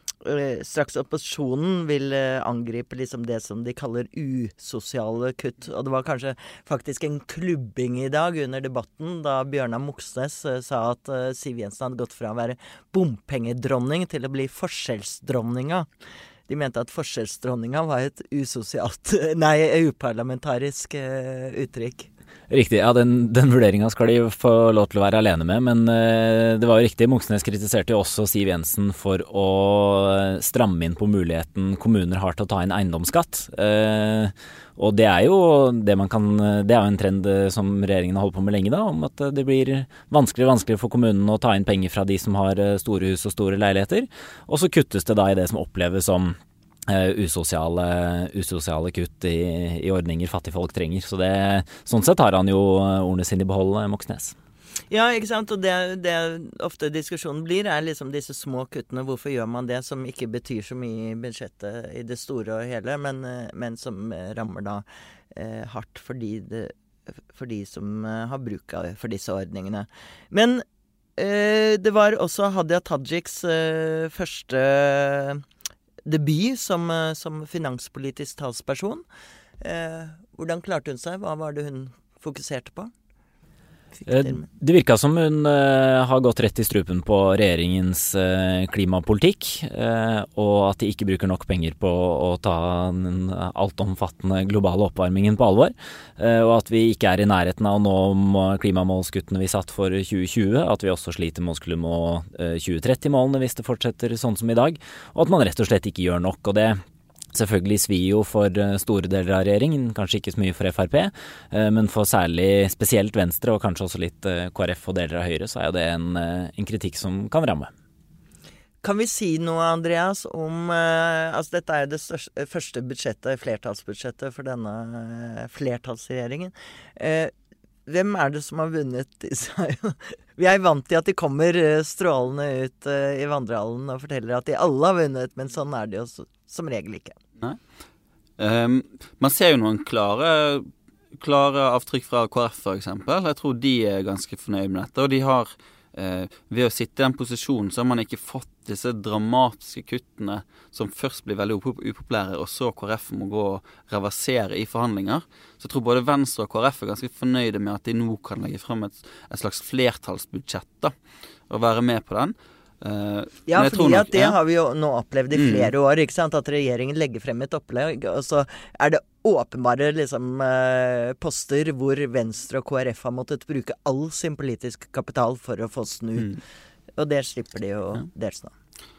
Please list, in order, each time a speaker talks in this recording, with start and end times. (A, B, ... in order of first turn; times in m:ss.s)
0:00.2-0:15.9 A
0:16.5-0:22.1 A
0:22.5-0:46.4 B
0:46.9-0:54.3 B
0:54.9-1:06.7 A
1:07.3-1:10.6 A
1:11.2-1:15.4 A
1:16.0-1:19.0 A
1:19.6-1:22.9 A
1:24.0-1:24.4 A
1:24.1-1:46.8 B
1:47.3-1:57.7 B
1:58.8-2:07.3 A
2:07.8-2:17.2 A
2:18.4-2:20.6 C
2:21.2-2:40.9 C
2:41.5-2:44.4 C
2:43.5-2:56.4 A
2:45.3-2:45.7 C
2:57.0-2:58.5 A